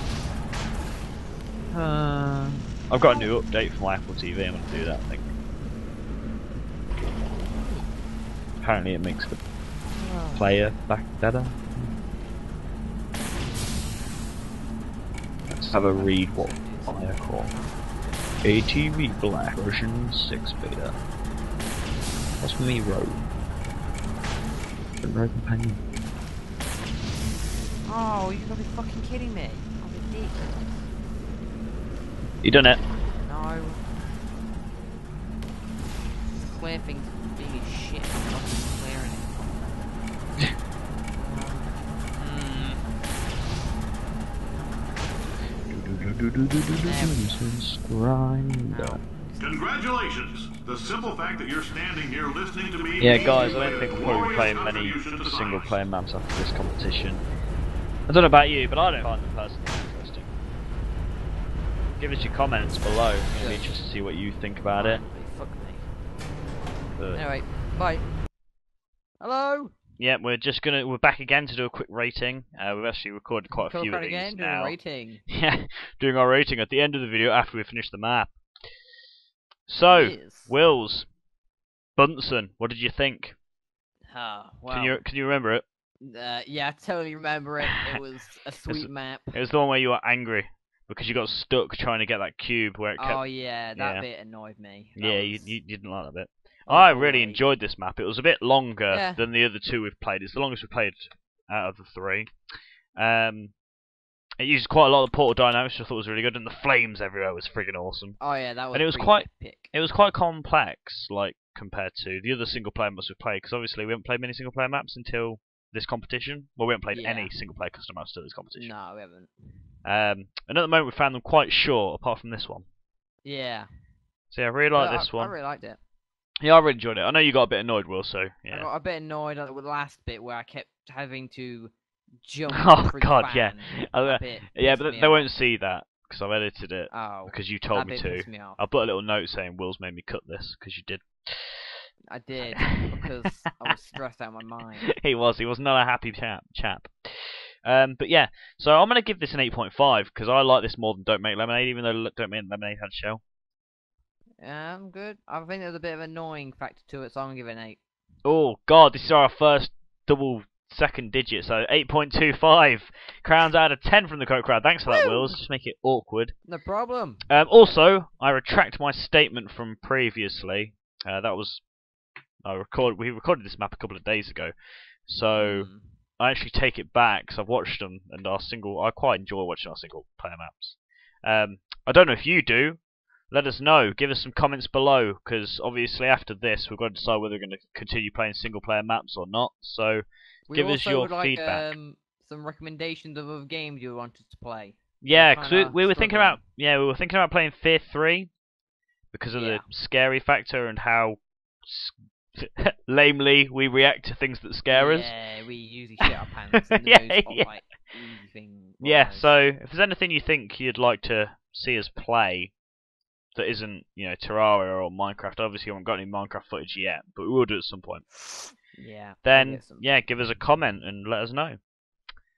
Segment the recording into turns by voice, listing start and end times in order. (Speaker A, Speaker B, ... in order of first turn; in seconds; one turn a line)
Speaker A: 1.7-5.3
Speaker A: 8.6-9.4
Speaker B: 10.0-10.6
Speaker A: 10.3-11.9
Speaker A: 15.5-17.5
Speaker B: 15.9-18.5
Speaker A: 18.4-20.9
Speaker A: 22.4-23.2
Speaker A: 25.0-25.8
Speaker B: 27.9-30.9
Speaker A: 32.4-32.8
Speaker B: 33.2-33.8
Speaker B: 36.4-39.8
Speaker B: 41.1-42.8
Speaker A: 45.7-49.0
Speaker B: 46.8-47.5
Speaker B: 48.7-49.5
Speaker C: 49.4-55.7
Speaker A: 53.0-57.2
Speaker A: 58.1-60.3
Speaker A: 62.0-65.0
Speaker B: 63.4-63.7
Speaker B: 64.7-65.9
Speaker A: 67.0-67.3
Speaker B: 67.1-68.1
Speaker B: 69.2-69.7
Speaker A: 70.0-74.8
Speaker B: 73.5-75.2
Speaker A: 75.3-78.4
Speaker A: 79.7-81.1
Speaker B: 79.9-80.5
Speaker A: 82.0-83.4
Speaker B: 84.1-85.0
Speaker A: 84.7-85.7
Speaker B: 86.0-89.4
Speaker A: 87.6-88.0
Speaker A: 88.7-93.2
Speaker B: 93.0-95.6
Speaker A: 93.8-94.1
Speaker A: 95.0-102.3
Speaker B: 96.7-97.5
Speaker B: 98.9-99.2
Speaker A: 103.0-103.5
Speaker A: 104.4-108.2
Speaker B: 108.2-109.7
Speaker A: 108.7-118.7
Speaker B: 116.9-117.3
Speaker B: 118.5-119.3
Speaker A: 119.8-122.7
Speaker B: 123.2-123.7
Speaker A: 124.3-125.3
Speaker B: 124.7-125.8
Speaker A: 126.4-128.7
Speaker B: 128.5-135.3
Speaker A: 132.5-141.7
Speaker B: 136.9-138.6
Speaker B: 142.1-144.9
Speaker A: 142.4-143.1
Speaker A: 144.9-153.2
Speaker B: 154.4-157.8
Speaker A: 158.2-166.3
Speaker B: 164.9-165.4
Speaker B: 166.5-167.2
Speaker A: 167.3-171.6
Speaker A: 172.4-174.5
Speaker A: 175.1-175.7
Speaker B: 175.4-176.0
Speaker A: 176.2-182.8
Speaker A: 183.3-191.8
Speaker B: 190.5-196.4
Speaker A: 195.0-198.3
Speaker A: 199.1-205.1
Speaker B: 199.4-199.7
Speaker B: 204.7-209.5
Speaker A: 206.0-207.5
Speaker A: 208.8-212.5
Speaker A: 213.3-218.0
Speaker B: 218.1-219.9
Speaker A: 219.2-221.6